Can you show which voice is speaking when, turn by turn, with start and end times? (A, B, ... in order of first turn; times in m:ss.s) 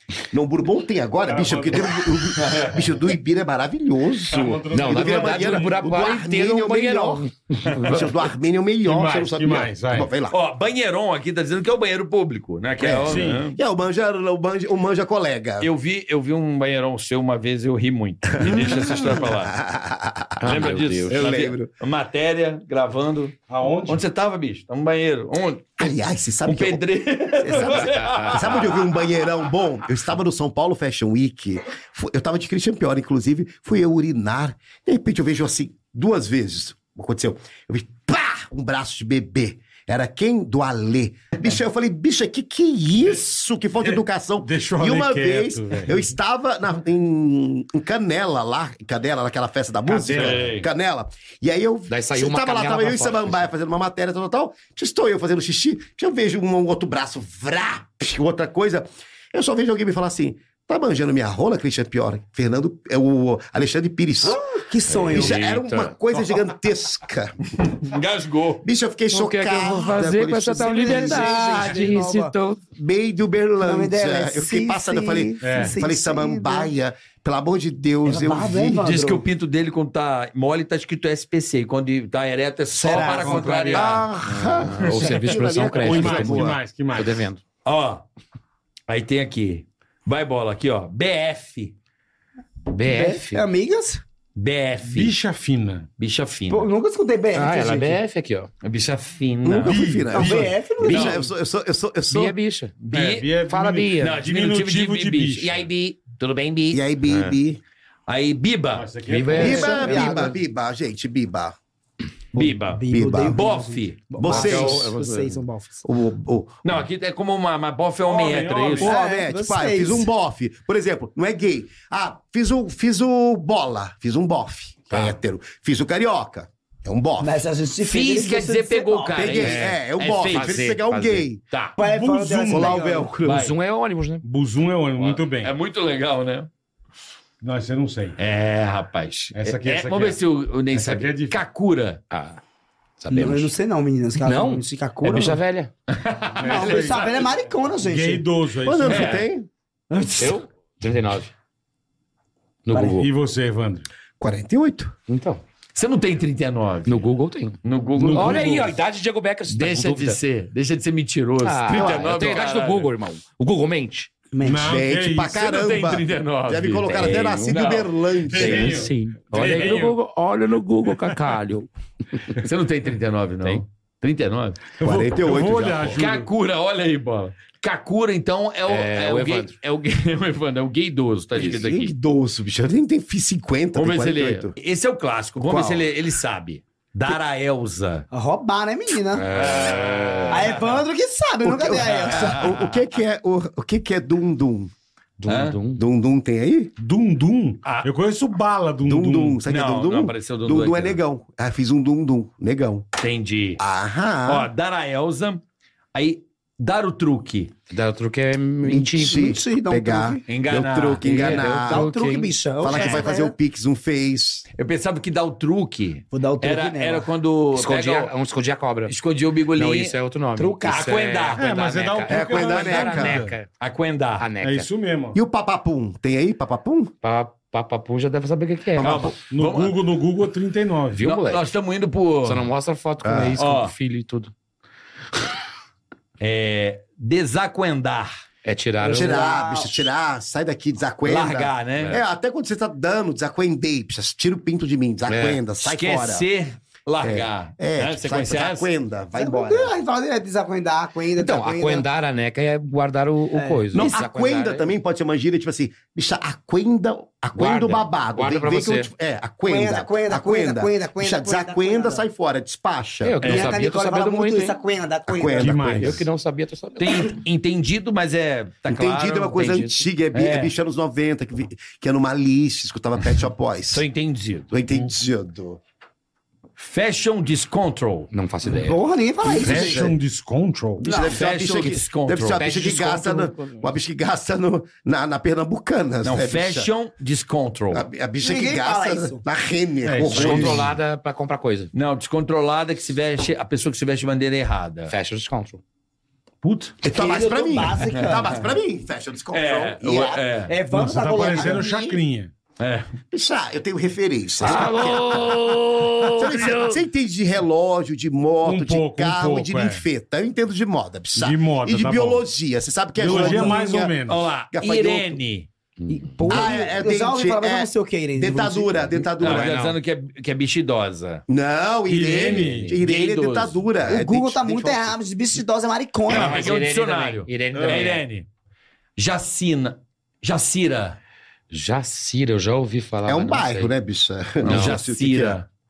0:00.3-0:07.2 A
0:01.3-0:02.0 B
0:02.4-0:02.8 C
0:04.3-0:05.8 B
0:04.7-0:08.1 D
0:07.7-0:08.0 C
0:07.8-0:10.4 A
0:08.8-0:10.1 B
0:10.3-0:13.6 C
0:12.8-0:15.7 A
0:13.0-0:13.5 B
0:15.6-0:19.6 C
0:18.4-0:21.7 A
0:20.4-0:21.2 D
0:20.4-0:25.7 C
0:23.5-0:24.0 B
0:25.8-1:04.4 A
0:26.5-0:28.9 C
0:27.8-0:28.4 D
0:43.8-0:46.0 B
0:49.9-0:50.6 B
0:50.2-0:50.6 C
0:51.9-0:53.5 D
1:04.2-1:05.4 E
1:04.9-1:05.9 D
1:05.1-1:07.5 A
1:07.6-1:08.6 C
1:08.6-1:11.4 A
1:09.1-1:12.6 D
1:10.5-1:12.3 E
1:12.8-1:18.8 A
1:13.6-1:16.7 E
1:15.4-1:15.7 B
1:18.0-1:19.2 E
1:18.8-1:24.1 C
1:22.7-1:23.5 E
1:22.9-1:24.0 B
1:23.7-1:26.6 A
1:24.2-1:27.4 D
1:24.6-1:25.4 C
1:25.8-1:27.2 B
1:27.6-1:28.0 C
1:28.9-1:31.8 C
1:32.7-1:33.4 D
1:32.8-1:34.0 E
1:34.4-1:35.2 C
1:34.8-1:35.9 B
1:36.0-1:36.7 C
1:36.5-1:38.0 E
1:37.3-1:38.5 D
1:38.6-1:39.8 C
1:39.4-1:42.4 A
1:39.6-1:40.4 B
1:40.1-1:41.3 E
1:40.8-1:41.2 C
1:42.1-1:42.8 D
1:42.8-1:43.4 C
1:42.9-1:45.6 B
1:43.5-1:44.2 D
1:44.0-1:46.8 C
1:46.7-1:47.6 A
1:47.1-1:47.4 D
1:48.1-1:48.9 C
1:48.7-1:49.8 B
1:49.1-1:50.4 D
1:49.3-1:50.4 E
1:49.4-1:51.6 A
1:52.4-1:54.1 C
1:52.4-1:55.8 E
1:52.9-1:53.4 A
1:54.2-1:54.9 A
1:54.2-1:55.4 D
1:55.8-1:56.7 A
1:56.6-1:58.9 C
1:58.1-1:59.0 B
1:58.8-2:07.4 A
1:58.8-2:00.1 E
2:07.2-2:09.5 E
2:07.8-2:10.6 C
2:09.1-2:11.4 A
2:09.4-2:11.3 D
2:11.8-2:12.8 B
2:11.8-2:13.1 E
2:12.5-2:13.5 A
2:13.2-2:13.6 C
2:13.2-2:14.2 D
2:14.2-2:15.5 B
2:15.0-2:16.5 C
2:17.4-2:18.2 B
2:18.2-2:22.0 C
2:19.3-2:20.2 B
2:20.7-2:21.4 B
2:22.1-2:22.4 D
2:23.0-2:23.5 D
2:23.1-2:25.4 E
2:24.2-2:25.7 D
2:25.9-2:27.2 C
2:26.4-2:29.2 B
2:26.4-2:28.3 E
2:28.6-2:29.5 A
2:28.9-2:29.3 C
2:29.9-2:30.4 E
2:30.2-2:31.3 D
2:32.7-2:33.1 D
2:32.7-2:33.0 E
2:32.8-2:33.9 B
2:34.2-2:35.0 A
2:35.1-2:35.4 D
2:35.8-2:37.1 C
2:36.9-2:40.2 D
2:37.6-2:38.7 C
2:38.0-2:38.7 B
2:39.5-2:42.9 C
2:41.4-2:44.1 D
2:41.7-2:42.2 A
2:44.3-2:44.8 E
2:44.4-2:45.4 B
2:44.6-2:48.8 A
2:45.3-2:49.8 C
2:46.8-2:47.5 D
2:48.3-2:50.0 B
2:48.6-2:52.4 D
2:52.4-2:54.7 C
2:54.8-2:56.3 B
2:54.8-2:56.0 A
2:55.9-3:02.0 C
2:58.7-2:59.5 D
3:01.4-3:04.6 A
3:03.8-3:08.1 C
3:05.4-3:05.9 A
3:08.1-3:09.2 E
3:09.1-3:10.6 D
3:09.3-3:10.6 C
3:10.3-3:12.4 E
3:11.4-3:14.7 A
3:12.0-3:12.8 C
3:15.2-3:15.8 D
3:15.3-3:15.6 C
3:15.8-3:16.7 A
3:16.8-3:19.4 B
3:17.6-3:17.9 C
3:18.8-3:22.8 A
3:19.5-3:21.0 C
3:23.0-3:23.6 C
3:23.6-3:24.5 A
3:24.3-3:25.4 C
3:25.9-3:27.5 C
3:27.7-3:29.3 D
3:28.6-3:31.9 A
3:29.0-3:30.2 E
3:30.3-3:31.6 C
3:31.0-3:32.4 D
3:31.5-3:33.3 E
3:32.6-3:34.5 A
3:32.7-3:33.0 C
3:34.6-3:38.1 C
3:36.1-3:37.1 E
3:37.6-3:38.9 D
3:38.9-3:40.0 C
3:39.6-3:43.5 D
3:40.4-3:40.9 E
3:40.7-3:41.4 C
3:41.4-3:43.4 B
3:42.1-3:43.2 A
3:43.6-3:44.3 C
3:44.2-3:44.7 D
3:44.4-3:45.2 B
3:45.1-3:46.9 A
3:47.0-3:49.1 D
3:48.8-3:49.1 A
3:48.8-3:49.8 C
3:49.2-3:51.0 B
3:50.9-3:51.4 D
3:51.0-3:52.5 C
3:52.2-3:54.3 D
3:53.0-3:53.4 A
3:53.4-3:53.7 C
3:56.2-3:58.1 C
3:58.4-3:59.3 D
3:58.8-3:59.9 E
3:58.8-4:06.3 A
4:01.0-4:02.0 C
4:05.1-4:05.4 D
4:05.6-4:08.7 C
4:07.0-4:09.7 A
4:09.2-4:11.9 E
4:11.2-4:14.7 D
4:13.3-4:13.9 E
4:13.7-4:23.2 A
4:17.4-4:18.9 D
4:19.5-4:22.0 E
4:23.0-4:24.6 D
4:23.2-4:23.5 C
4:23.2-4:26.0 E
4:25.1-4:26.0 A
4:25.4-4:26.1 B
4:25.8-4:27.2 D
4:26.8-4:30.5 C
4:28.7-4:33.8 A
4:33.7-4:34.5 C
4:34.5-4:35.6 A
4:36.6-4:38.1 C
4:38.1-4:38.8 D
4:38.4-4:39.9 E
4:39.2-4:40.0 A
4:39.4-4:40.9 B
4:40.8-4:46.7 A
4:40.8-4:41.2 E
4:41.1-4:42.6 C
4:42.3-4:43.7 D
4:46.0-4:47.9 C
4:47.7-4:50.7 A
4:48.2-4:49.2 E
4:49.8-4:50.6 B
4:50.0-4:51.7 D
4:50.2-4:50.7 C
4:51.7-4:54.9 C
4:54.9-4:55.6 D
4:56.4-4:56.8 B
4:56.8-5:00.2 A
4:56.9-4:58.4 E
4:57.8-4:58.4 C
4:59.3-5:00.5 C
5:00.5-5:01.9 E
5:00.7-5:02.3 B
5:01.4-5:01.9 A
5:02.6-5:02.9 C
5:03.1-5:05.4 A
5:04.4-5:06.8 D
5:04.4-5:05.2 C
5:06.2-5:14.0 A
5:08.4-5:09.8 B
5:11.2-5:12.2 B
5:13.0-5:14.3 B
5:13.1-5:13.6 E
5:14.1-5:15.5 C
5:14.5-5:15.2 A
5:15.9-5:19.1 E
5:16.3-5:19.6 A
5:19.2-5:19.8 D
5:19.2-5:21.2 C
5:21.3-5:25.0 A
5:21.9-5:22.8 B
5:22.4-5:22.7 D
5:22.8-5:23.6 C
5:23.8-5:26.5 E
5:26.1-5:28.0 D
5:26.1-5:28.3 C
5:27.5-5:27.9 B
5:29.0-5:31.0 C
5:31.5-5:33.7 D
5:33.1-5:35.4 A
5:34.4-5:35.5 C
5:34.4-5:34.8 D